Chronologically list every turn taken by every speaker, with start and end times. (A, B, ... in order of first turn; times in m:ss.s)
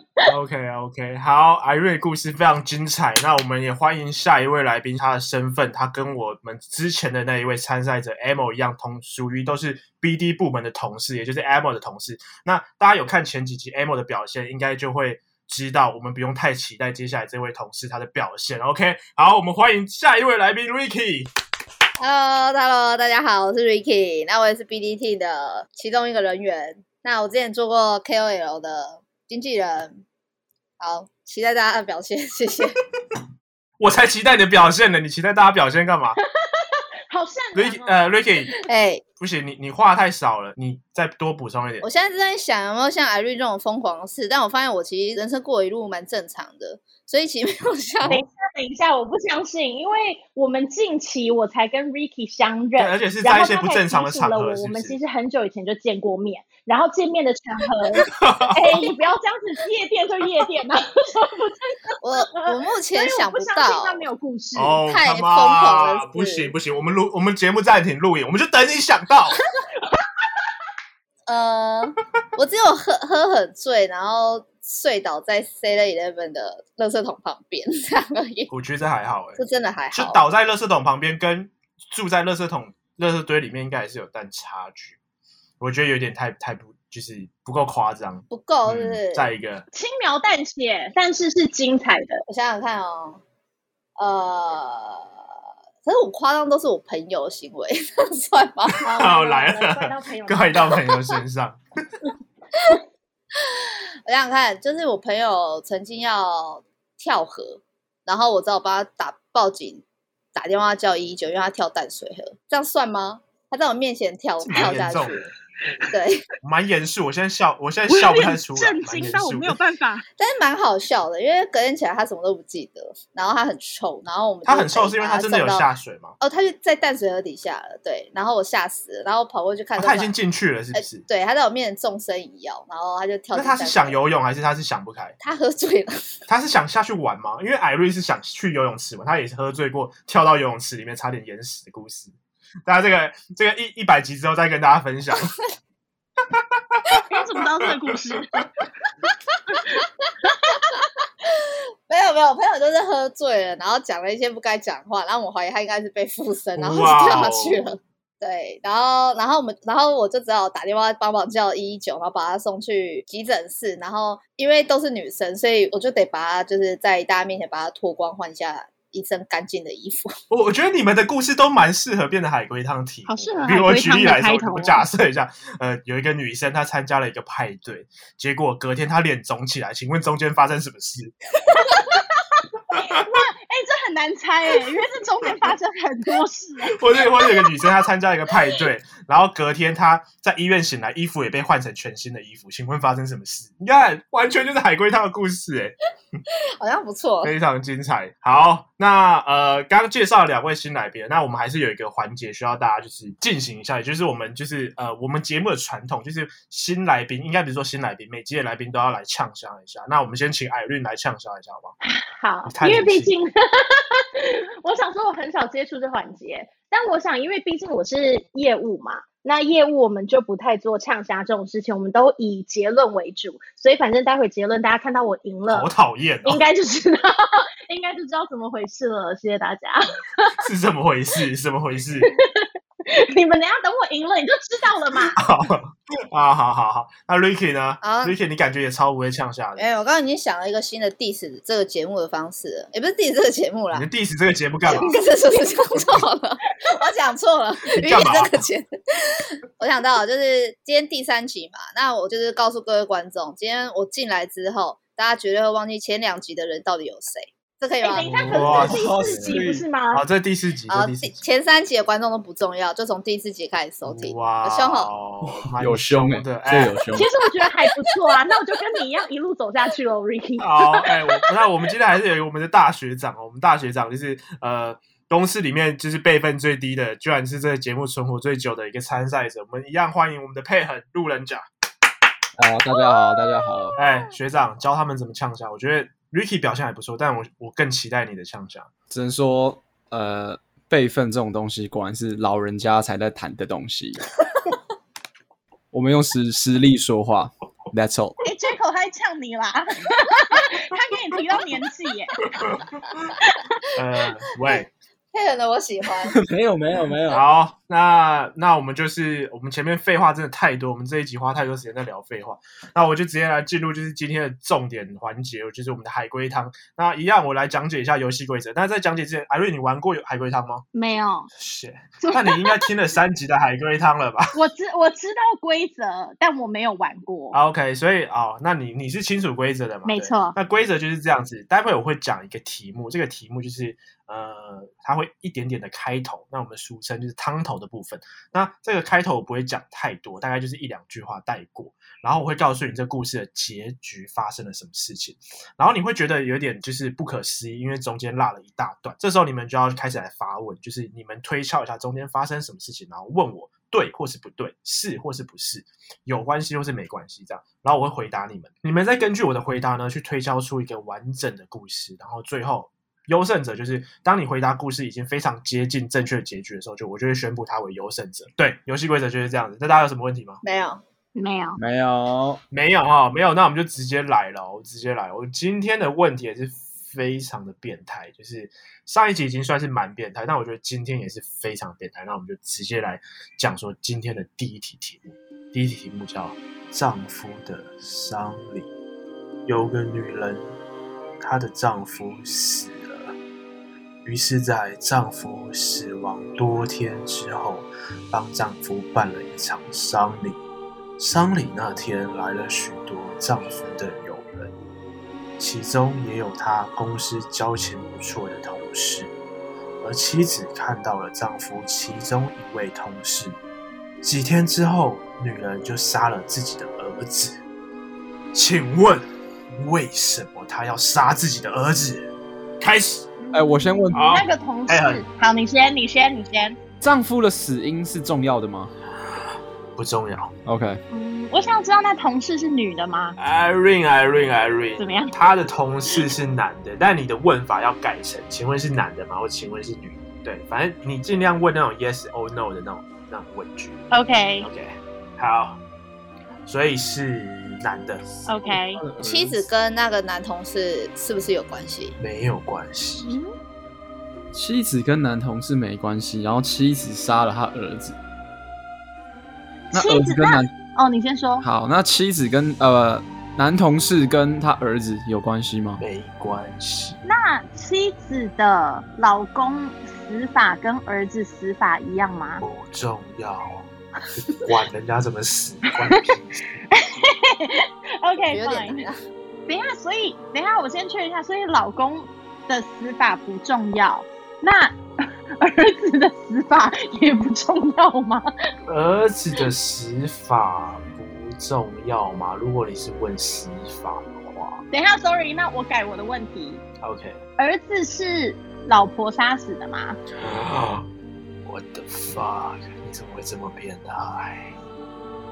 0:00.3-0:21.3 A
0:22.0-0:30.0 B
0:30.8-0:32.7 B
0:33.8-0:36.2 A
0:36.5-0:38.0 C
0:37.6-0:38.5 A
0:38.6-0:39.0 B
0:39.2-0:41.9 A
0:41.8-0:48.2 B
0:48.1-1:04.8 C
0:52.8-0:55.0 A
0:58.0-0:58.8 A
1:02.0-1:04.1 B
1:04.6-1:09.4 A
1:04.9-1:06.5 B
1:11.3-1:18.5 B
1:18.5-1:19.4 A
1:19.4-1:20.2 B
1:19.9-1:25.0 A
1:25.6-1:29.6 A
1:28.3-1:29.3 B
1:29.7-1:32.2 C
1:32.3-1:33.2 B
1:34.0-1:35.1 B
1:35.8-1:38.8 B
1:38.8-1:41.6 A
1:38.8-1:40.8 C
1:43.5-1:49.8 B
1:50.3-1:55.2 B
1:54.4-1:55.3 A
1:55.9-1:56.2 B
1:56.4-1:59.6 A
1:57.9-2:00.0 C
2:00.2-2:05.7 B
2:04.4-2:06.2 A
2:06.2-2:10.1 B
2:09.8-2:11.0 A
2:10.8-2:14.0 B
2:13.3-2:15.2 A
2:15.2-2:16.2 B
2:16.3-2:22.2 A
2:22.7-2:25.3 A
2:26.4-2:28.4 A
2:27.1-2:28.4 C
2:29.5-2:30.7 C
2:30.7-2:50.1 B
2:36.6-2:37.7 A
2:50.3-3:01.6 A
2:53.1-2:54.8 C
3:01.5-3:06.8 C
3:02.7-3:03.1 A
3:06.7-3:15.8 A
3:16.6-3:17.3 B
3:17.2-3:31.8 A
3:31.8-3:45.7 C
3:32.5-3:33.1 A
3:45.5-3:46.4 A
3:46.2-3:50.4 C
3:50.4-3:52.1 A
3:52.1-3:55.2 C
3:55.2-3:59.7 A
3:57.8-3:58.2 B
3:59.6-4:03.9 B
4:03.7-4:04.9 A
4:04.7-4:18.8 B
4:07.7-4:08.4 A
4:17.8-4:20.0 C
4:18.0-4:19.4 A
4:18.6-4:19.6 D
4:19.9-4:21.2 A
4:20.7-4:24.9 B
4:23.8-4:26.8 A
4:25.2-4:27.1 D
4:26.9-4:31.0 C
4:30.4-4:41.4 A
4:42.4-4:43.8 D
4:43.8-4:48.7 A
4:48.9-4:54.0 D
4:55.7-4:58.2 D
4:58.2-5:02.3 C
5:02.3-5:03.1 A
5:03.8-5:04.7 A
5:04.4-5:06.2 B
5:06.1-5:07.2 D
5:07.1-5:20.6 A
5:20.7-5:21.3 C
5:21.4-5:24.4 A
5:22.0-5:22.6 C
5:24.3-5:27.4 C
5:27.3-6:10.4 A
5:29.9-5:30.4 C
6:10.4-6:10.8 B
6:11.2-6:11.6 C
6:11.6-6:12.4 D
6:12.5-6:28.7 A
6:29.5-6:30.5 A
6:31.2-6:33.2 A
6:34.0-6:40.4 A
6:41.0-6:44.5 A
6:45.4-6:49.1 A
6:49.8-6:53.4 A
6:54.0-6:57.4 A
6:58.3-7:03.1 A
7:03.2-7:06.6 C
7:03.3-7:04.1 D
7:03.9-7:05.0 A
7:06.8-7:08.7 D
7:09.8-7:10.3 A
7:10.5-7:10.8 D
7:10.9-7:13.2 C
7:13.2-7:23.9 A
7:14.8-7:15.1 C
7:23.9-7:24.5 C
7:24.4-7:25.6 A
7:26.5-7:28.1 A
7:28.3-7:28.8 C
7:28.4-7:29.5 D
7:29.0-7:32.0 B
7:32.0-7:33.1 A
7:33.0-7:33.3 C
7:34.3-7:38.0 D
7:39.7-7:40.5 D
7:39.7-7:41.4 C
7:41.4-7:45.8 D
7:45.8-7:47.0 A
7:47.1-7:52.4 C
7:52.4-7:53.7 A
7:54.2-7:56.6 A
7:56.7-7:58.8 C
7:58.3-7:59.0 B
7:59.5-8:04.8 C
8:05.4-8:08.3 C
8:08.7-8:14.6 A
8:14.7-8:16.6 C
8:16.8-8:17.2 A
8:17.4-8:20.0 C
8:20.2-8:20.9 A
8:21.5-8:24.6 A